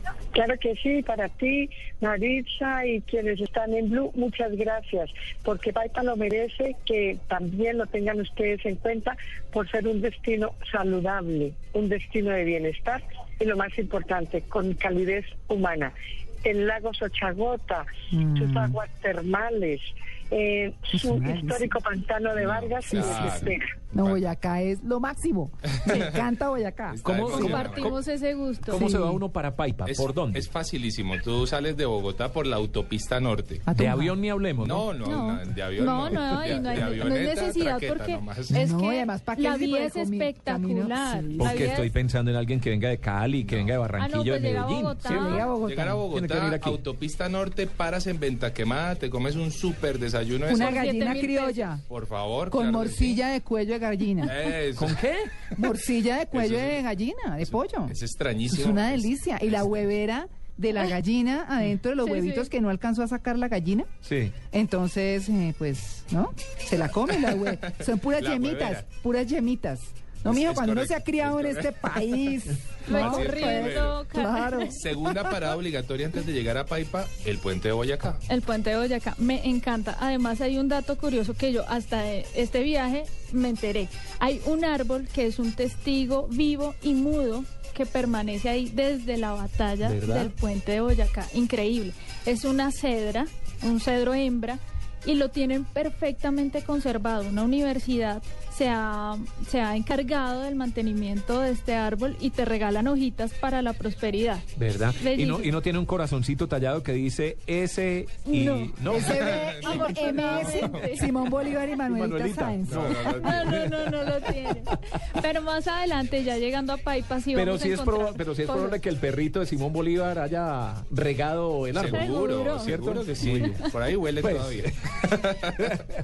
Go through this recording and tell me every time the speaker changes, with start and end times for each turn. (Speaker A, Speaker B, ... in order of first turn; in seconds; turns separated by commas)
Speaker A: 0.3-23.6, Speaker B: 18.1-18.8, Speaker B: 20.9-21.7, Speaker C: 22.3-24.2, Speaker B: 22.9-27.0, Speaker C: 25.7-26.0, Speaker C: 26.9-28.0, Speaker D: 27.0-28.0, Speaker E: 27.2-28.8, Speaker D: 28.7-30.5, Speaker B: 28.7-29.2, Speaker C: 29.9-33.7, Speaker B: 33.6-34.2, Speaker D: 33.7-34.9, Speaker C: 34.6-38.6, Speaker E: 35.1-41.9, Speaker B: 38.5-41.6, Speaker D: 41.4-45.5, Speaker C: 43.4-43.7, Speaker E: 44.0-45.5, Speaker B: 45.0-46.0, Speaker C: 45.6-50.8, Speaker D: 46.1-46.8, Speaker B: 50.5-51.8, Speaker E: 50.5-51.6, Speaker C: 51.9-53.2, Speaker B: 52.5-54.4, Speaker C: 54.2-55.0, Speaker D: 54.8-55.3, Speaker B: 55.5-58.0, Speaker C: 56.3-56.8, Speaker C: 57.4-59.7, Speaker B: 58.5-63.9, Speaker E: 62.0-62.5, Speaker D: 64.0-64.3, Speaker B: 64.5-75.5, Speaker C: 67.2-67.5, Speaker C: 68.1-68.8, Speaker C: 70.2-74.0, Speaker E: 72.8-74.7, Speaker C: 74.8-78.2, Speaker E: 78.3-104.4, Speaker D: 89.8-90.3, Speaker D: 104.5-109.2, Speaker E: 105.0-105.6, Speaker E: 108.2-111.1, Speaker B: 108.9-113.4, Speaker C: 109.1-110.8, Speaker D: 111.8-113.0, Speaker C: 112.6-113.7, Speaker E: 113.2-118.8, Speaker D: 117.3-123.6, Speaker C: 121.7-125.8, Speaker E: 121.8-122.8, Speaker D: 124.2-124.7